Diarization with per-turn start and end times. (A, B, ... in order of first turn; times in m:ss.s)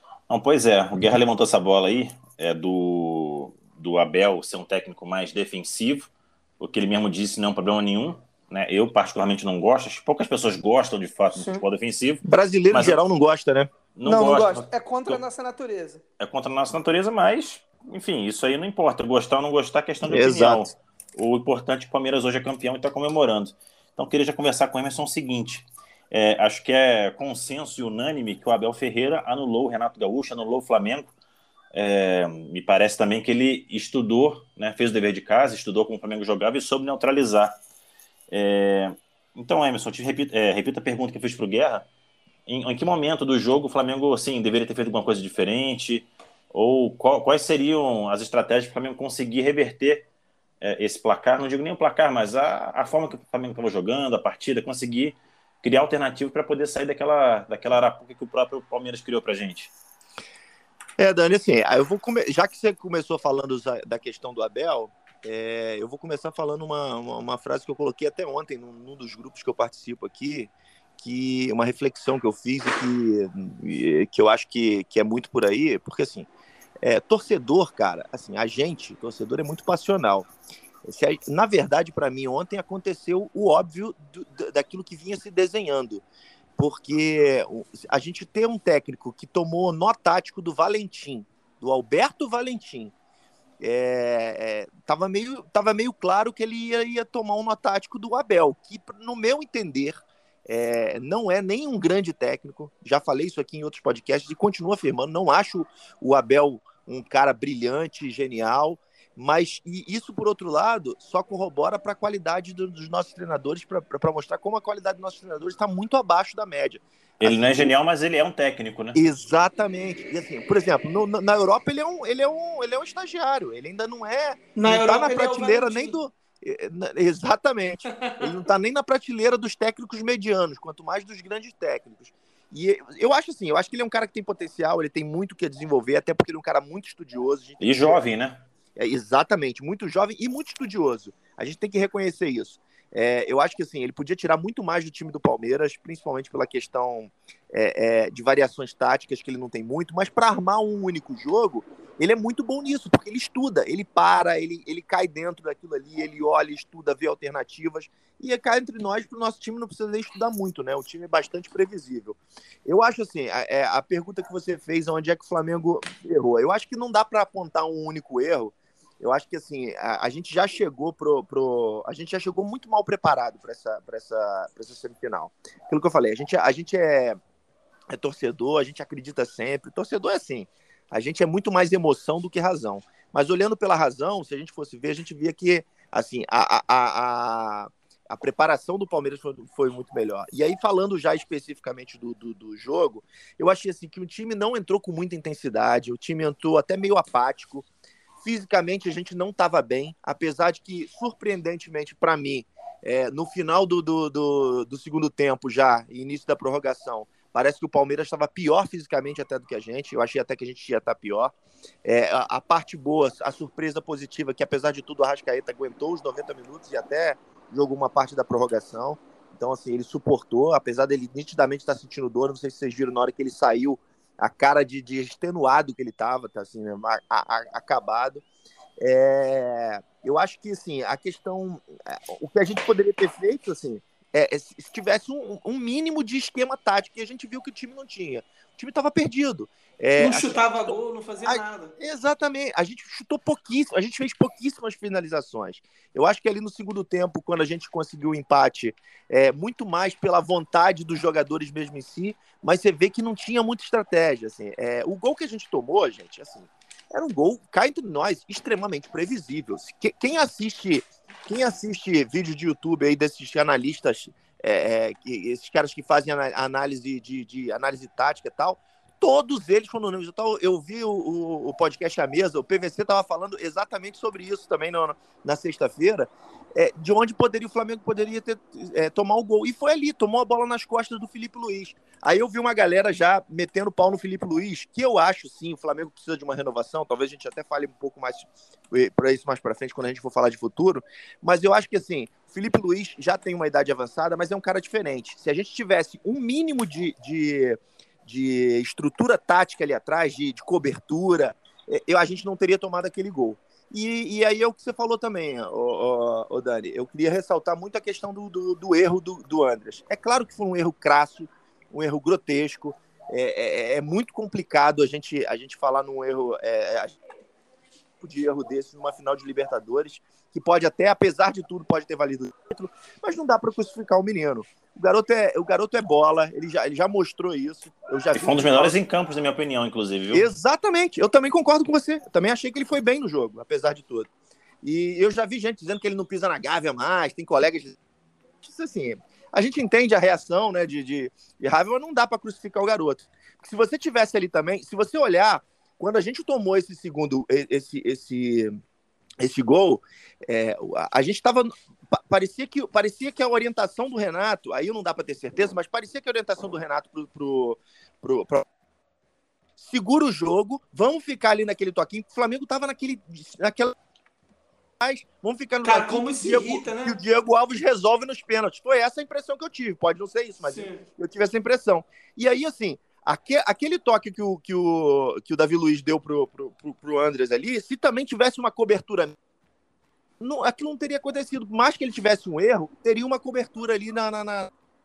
0:00.3-0:13.0 A
0:11.3-0:11.6 B
0:12.2-0:13.7 C
0:13.9-0:15.2 A
0:14.0-0:16.0 B
0:16.2-0:31.1 A
0:20.0-0:20.7 C
0:31.7-0:37.6 A
0:38.3-0:41.9 A
0:42.5-0:50.1 A
0:50.6-0:59.7 A
1:01.0-1:16.3 C
1:16.8-1:20.3 C
1:20.8-1:26.0 C
1:26.6-1:32.9 C
1:33.6-1:57.7 C
1:57.2-1:59.0 A
1:59.0-2:18.0 C
2:04.5-2:06.0 B
2:17.6-2:18.4 A
2:18.8-2:57.2 C
2:57.9-3:17.7 C
3:18.2-3:48.2 C
3:48.8-4:00.7 C
4:00.0-4:01.7 B
4:01.3-5:17.0 C
5:18.0-5:28.8 C
5:28.1-5:30.2 A
5:30.1-5:34.1 C
5:34.6-5:37.8 C
5:38.4-5:48.6 C
5:49.2-5:58.5 C
5:59.6-6:03.7 C
6:04.8-6:19.1 C
6:05.6-6:07.0 B
6:10.5-6:10.8 B
6:20.2-6:24.5 C